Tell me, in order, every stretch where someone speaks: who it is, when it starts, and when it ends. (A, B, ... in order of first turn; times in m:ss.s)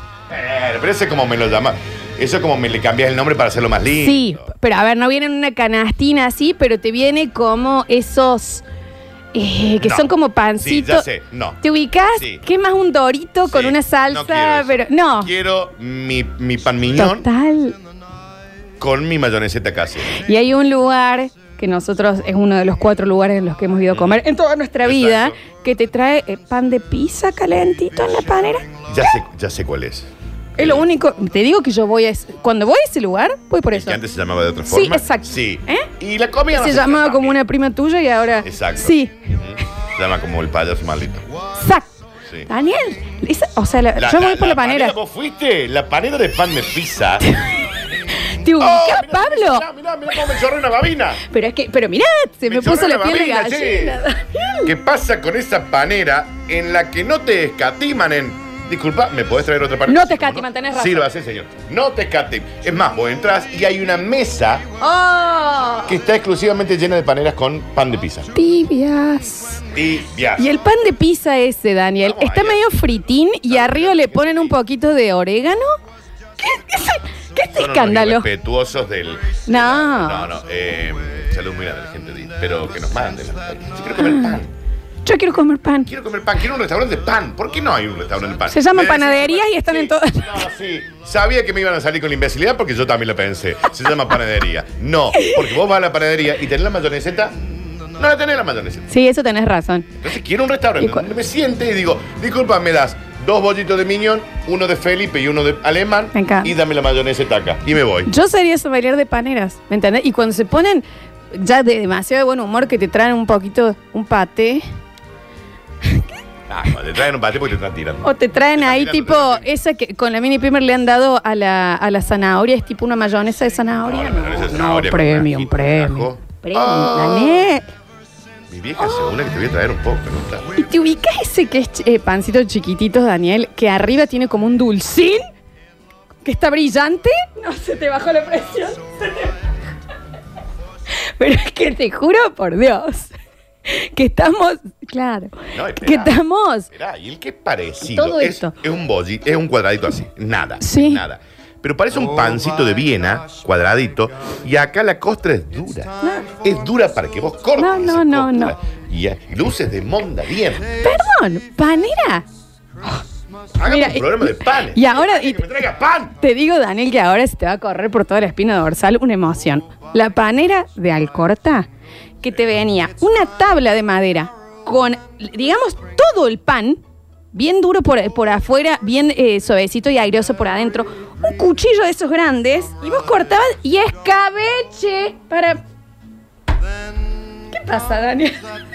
0:00.3-0:04.4 A
0:04.0-0:08.6 B
0:09.3-0:11.0 B
0:09.8-0:11.6 A
0:11.6-0:15.3 B
0:12.2-0:12.4 A
0:13.5-0:17.2 A
0:17.0-0:17.8 B
0:18.8-0:20.2 A
0:20.1-0:28.6 B
0:23.9-0:24.2 A
0:24.8-0:25.4 A
0:28.9-0:30.8 A
0:30.6-0:34.0 B
0:33.7-0:37.4 A
0:34.7-0:35.9 B
0:36.5-0:39.2 B
0:38.4-0:41.2 A
0:41.5-0:41.9 B
0:42.5-0:45.0 B
0:44.0-0:47.3 A
0:48.3-0:49.6 B
0:48.6-0:51.2 A
0:51.3-0:54.7 B
0:52.5-0:54.0 A
0:54.6-1:04.7 A
0:59.9-1:01.0 B
1:04.8-1:05.9 B
1:05.9-1:08.3 A
1:08.3-1:09.6 B
1:09.7-1:10.5 A
1:10.4-1:15.6 B
1:12.0-1:12.6 A
1:13.5-1:14.6 A
1:16.4-1:18.3 B
1:17.5-1:24.5 A
1:19.5-1:20.2 B
1:24.0-1:24.3 B
1:25.0-1:25.9 B
1:25.9-1:37.3 A
1:28.5-1:30.4 B
1:35.2-1:35.4 B
1:38.0-1:38.9 A
1:38.9-1:39.9 B
1:40.0-1:48.1 A
1:40.8-1:41.0 B
1:46.1-1:46.5 B
1:48.1-1:54.6 B
1:56.5-1:59.4 A
1:58.0-2:07.6 B
2:03.8-2:07.4 A
2:08.5-2:10.5 A
2:08.8-2:09.1 B
2:10.5-2:15.2 B
2:16.2-2:19.3 B
2:21.2-2:23.1 B
2:23.6-2:26.7 B
2:25.5-2:26.2 A
2:26.7-2:40.7 A
2:27.9-2:28.5 B
2:30.6-2:31.0 B
2:36.0-2:36.3 B
2:37.6-2:38.5 B
2:40.8-2:42.2 B
2:43.6-2:46.1 A
2:43.6-2:45.4 B
2:46.2-2:51.7 B
2:52.2-2:56.8 B
2:57.3-3:05.6 B
3:07.5-3:08.4 B